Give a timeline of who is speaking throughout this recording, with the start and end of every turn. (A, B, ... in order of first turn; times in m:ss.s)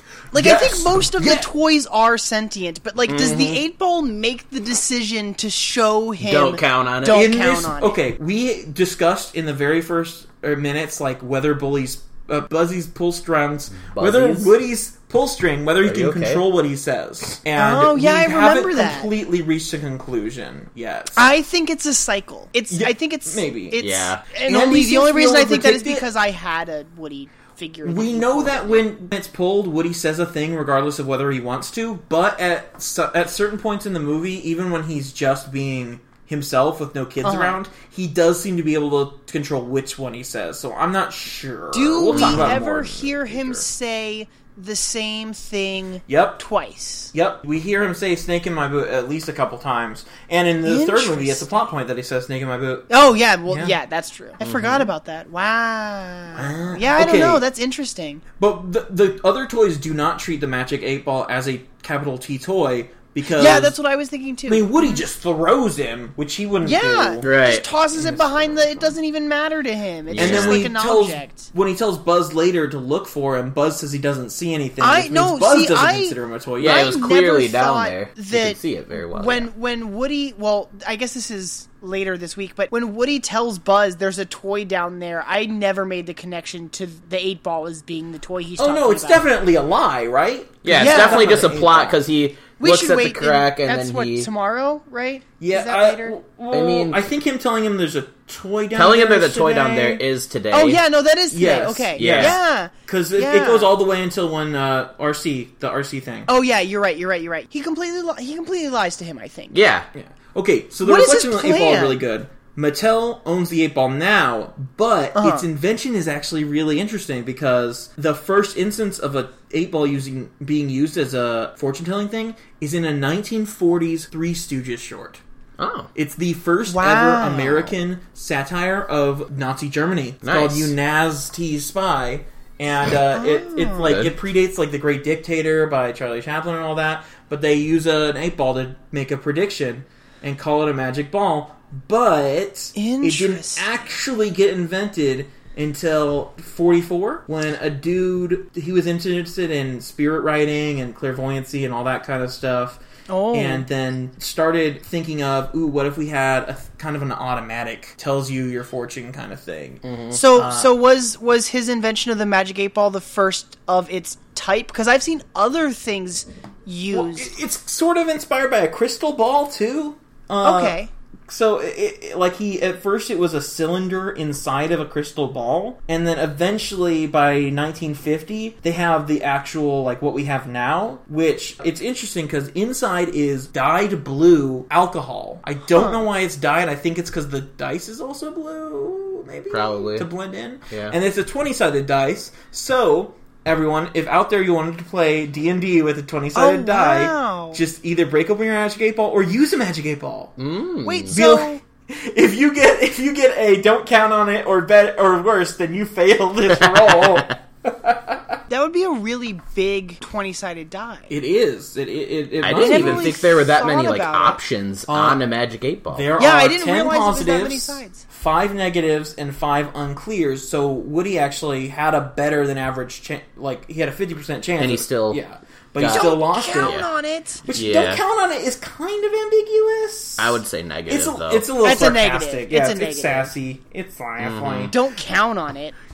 0:00.3-0:01.5 A
0:00.3-0:08.0 B
0:03.1-0:03.6 C
0:06.2-0:07.3 C
0:07.0-0:21.3 A
0:13.8-0:14.5 C
0:15.8-0:16.4 C
0:17.6-0:19.1 B
0:21.1-0:28.8 B
0:22.7-0:23.8 A
0:23.8-0:24.2 C
0:24.4-0:26.1 A
0:27.8-0:43.6 A
0:37.2-0:37.6 B
0:41.7-0:47.1 B
0:42.1-0:42.6 C
0:46.1-0:46.4 A
0:47.1-0:52.9 A
0:50.6-0:51.6 B
0:52.9-0:58.2 B
0:53.5-0:53.8 A
0:54.4-0:54.8 C
0:56.3-0:57.4 A
0:58.4-1:03.8 A
1:03.3-1:05.0 B
1:04.5-1:07.3 A
1:06.6-1:11.5 B
1:07.2-1:07.7 C
1:07.9-1:08.9 A
1:10.1-1:10.7 C
1:10.2-1:17.0 A
1:14.8-1:29.3 B
1:16.6-1:19.5 C
1:28.6-1:32.0 A
1:30.6-1:34.3 C
1:30.8-1:31.4 B
1:32.6-1:36.2 B
1:35.4-1:40.0 A
1:36.5-1:37.0 C
1:38.7-1:40.8 C
1:40.5-1:43.7 B
1:41.3-1:46.3 A
1:42.0-1:42.4 C
1:46.3-1:49.6 B
1:49.5-1:49.9 C
1:49.9-2:05.2 A
1:50.8-1:52.0 B
1:55.1-1:55.4 B
2:05.6-2:05.9 C
2:05.9-2:32.8 A
2:06.7-2:07.7 B
2:10.2-2:10.7 C
2:13.1-2:13.9 B
2:13.8-2:14.1 C
2:22.7-2:23.6 B
2:33.1-2:33.6 B
2:33.3-2:40.8 A
2:39.8-2:40.2 C
2:40.1-2:47.3 B
2:46.9-3:20.3 A
2:50.4-2:50.9 B
3:05.7-3:06.0 B
3:09.5-3:10.1 C
3:10.7-3:11.0 C
3:16.3-3:17.6 B
3:20.4-3:21.2 C
3:20.8-3:21.6 B
3:21.1-3:28.4 A
3:26.6-3:27.4 C
3:28.5-3:31.1 B
3:31.1-3:33.1 A
3:32.4-3:36.1 C
3:32.5-3:34.4 B
3:34.9-3:35.2 A
3:35.9-3:46.8 A
3:36.2-3:38.0 B
3:44.6-3:45.2 C
3:45.8-3:46.9 C
3:45.8-3:47.4 B
3:47.4-3:54.8 A
3:47.5-3:48.0 C
3:50.2-3:51.5 C
3:51.6-3:53.3 B
3:54.2-3:54.7 C
3:54.7-3:55.7 B